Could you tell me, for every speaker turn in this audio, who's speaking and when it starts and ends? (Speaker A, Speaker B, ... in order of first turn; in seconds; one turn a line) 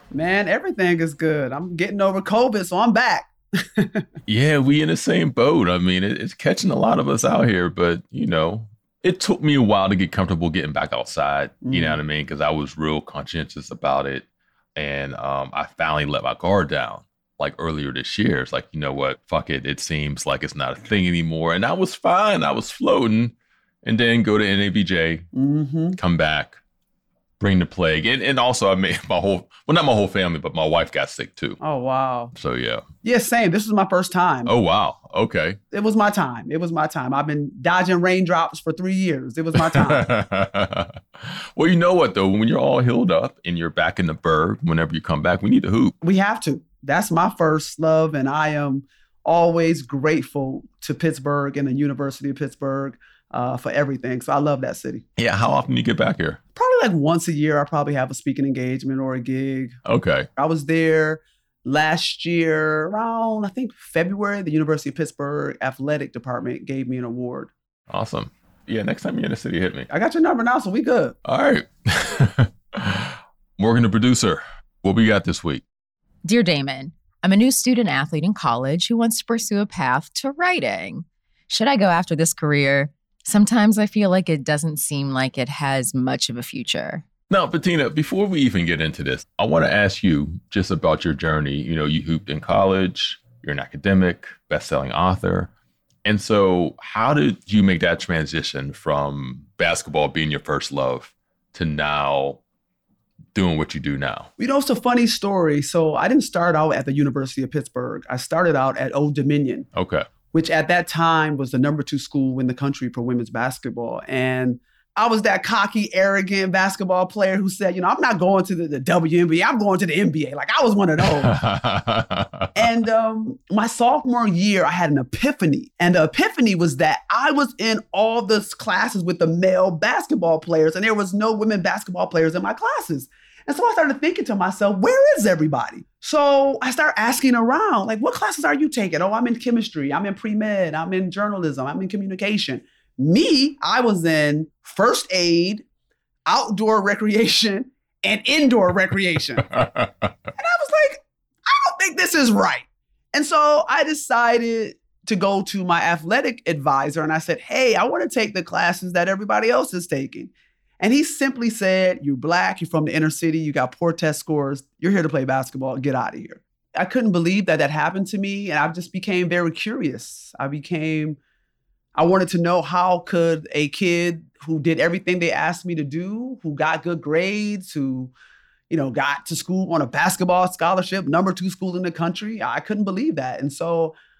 Speaker A: 0.1-4.0
Speaker B: 4.3-25.3
Speaker A: 11.6-12.0
Speaker A: 25.3-26.0
Speaker B: 26.0-26.6
Speaker B: 27.4-31.6
Speaker A: 31.6-32.3
Speaker B: 32.4-32.9
Speaker A: 33.0-34.5
Speaker B: 34.5-35.6
Speaker A: 35.7-40.1
Speaker B: 39.5-45.9
Speaker A: 46.0-55.0
Speaker B: 55.2-56.4
Speaker A: 56.6-59.8
Speaker B: 59.9-60.3
Speaker A: 60.4-67.5
Speaker B: 67.9-69.9
Speaker A: 69.9-71.2
Speaker B: 71.2-75.6
Speaker C: 76.2-87.0
Speaker B: 87.3-95.5
Speaker B: 96.0-102.4
Speaker B: 103.3-104.3
Speaker A: 104.4-109.7
Speaker B: 109.7-110.1
Speaker A: 110.3-121.4
Speaker B: 121.1-122.7
Speaker A: 122.6-145.7
Speaker A: 146.3-149.5
Speaker B: 149.4-150.1
Speaker A: 150.4-171.2
Speaker A: 172.0-178.1
Speaker A: 178.7-183.9